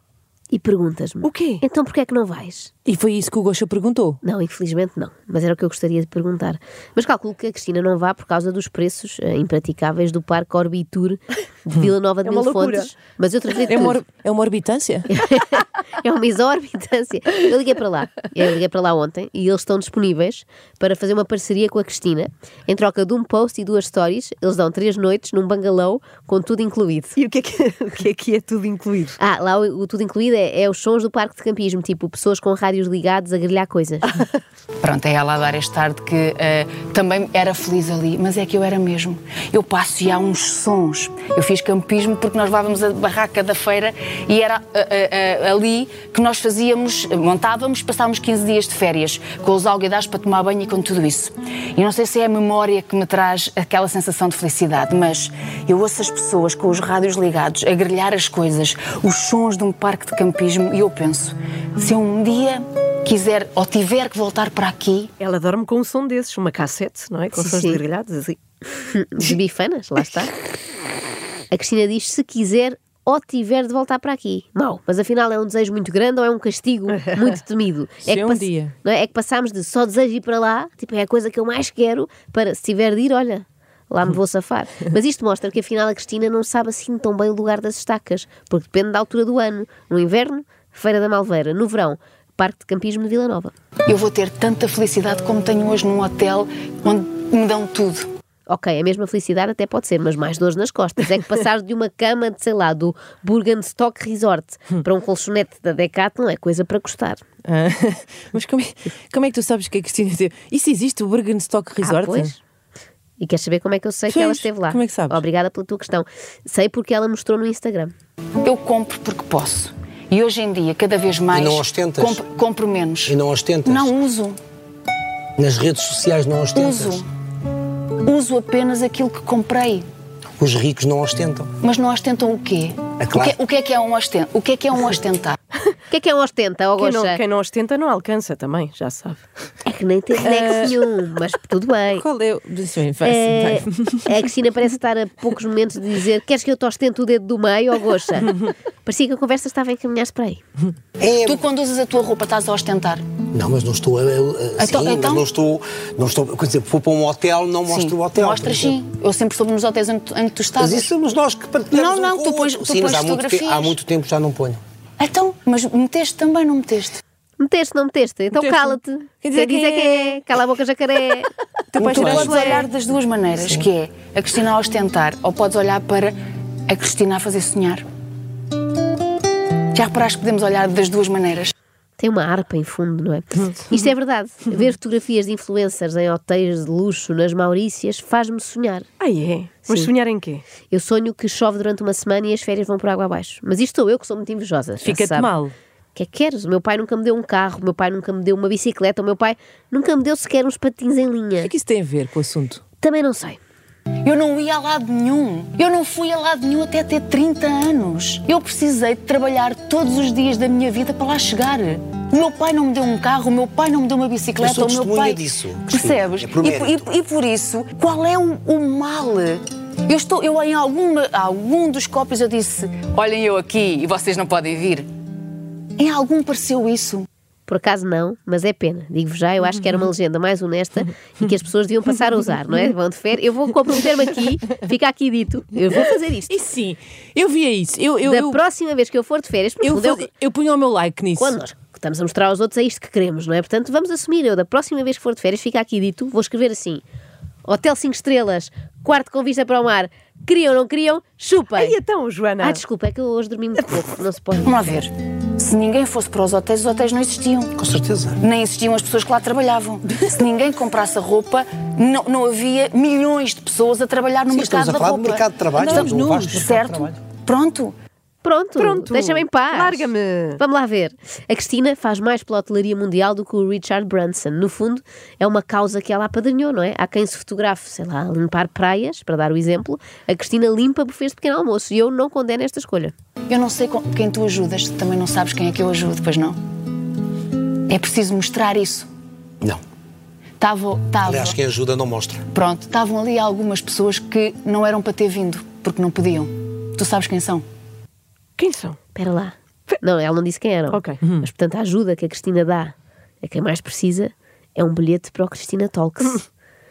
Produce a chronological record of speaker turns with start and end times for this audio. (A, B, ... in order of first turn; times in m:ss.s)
0:00.5-0:02.7 A
0:01.2-0:01.6 B
0:02.8-0:04.2 C
0:04.2-0:14.0 A
0:12.2-0:12.9 B
0:13.6-0:15.1 C
0:15.1-0:27.1 A
0:27.2-0:29.2 B
0:29.2-0:34.2 A
0:34.8-1:05.1 D
1:05.2-1:08.4 B
1:07.4-1:07.8 A
1:08.7-1:10.3 A
1:11.5-1:33.5 A
1:17.0-1:17.3 B
1:18.0-1:18.7 C
1:33.9-1:38.1 D
1:38.5-1:47.2 A
1:47.4-1:52.3 C
1:51.8-1:52.4 A
1:53.2-1:57.9 A
1:54.1-1:55.2 C
1:58.4-2:04.4 D
2:01.3-2:02.2 E
2:03.1-2:03.9 E
2:05.4-2:07.0 E
2:06.5-2:07.1 D
2:08.0-2:09.8 D
2:10.4-2:11.5 E
2:11.6-2:15.4 D
2:13.0-2:13.4 E
2:15.9-2:17.2 A
2:16.8-2:19.2 B
2:19.6-2:22.1 A
2:20.2-2:20.8 B
2:22.0-2:24.1 C
2:23.0-2:30.4 A
2:31.0-2:31.4 E
2:31.3-2:33.0 D
2:33.3-2:38.8 E
2:34.6-2:35.2 D
2:37.7-2:40.9 D
2:40.6-2:44.6 E
2:41.7-2:43.8 D
2:45.0-2:47.0 D
2:47.4-2:51.3 A
2:48.4-2:50.2 C
2:51.7-2:52.7 C
2:51.8-2:52.4 E
2:51.9-2:56.2 D
2:56.7-2:57.8 D
2:59.7-3:01.5 D
3:02.0-3:08.9 A
3:09.0-3:10.4 B
3:10.7-3:15.3 A
3:14.8-3:15.5 C
3:15.9-3:21.5 A
3:21.4-3:22.6 C
3:22.8-3:23.4 A
3:24.0-3:44.9 D
3:34.4-3:36.8 E
3:45.8-3:47.0 D
3:47.5-3:56.4 A
3:56.3-3:58.4 C
3:58.0-4:00.1 A
3:59.6-4:01.4 C
4:01.2-4:06.8 A
4:07.4-4:11.8 A
4:11.5-4:12.6 B
4:12.4-4:14.8 A
4:14.4-4:17.5 D
4:17.6-4:18.2 E
4:18.2-4:27.7 D
4:24.3-4:26.9 E
4:25.5-4:26.7 C
4:28.2-4:42.9 A
4:28.6-4:30.4 B
4:43.3-4:46.4 D
4:47.7-4:48.9 D
4:50.4-4:51.4 D
4:51.0-4:52.2 E
4:52.3-4:57.4 D
4:58.4-4:58.8 B
4:59.0-5:06.2 A
5:00.7-5:01.0 B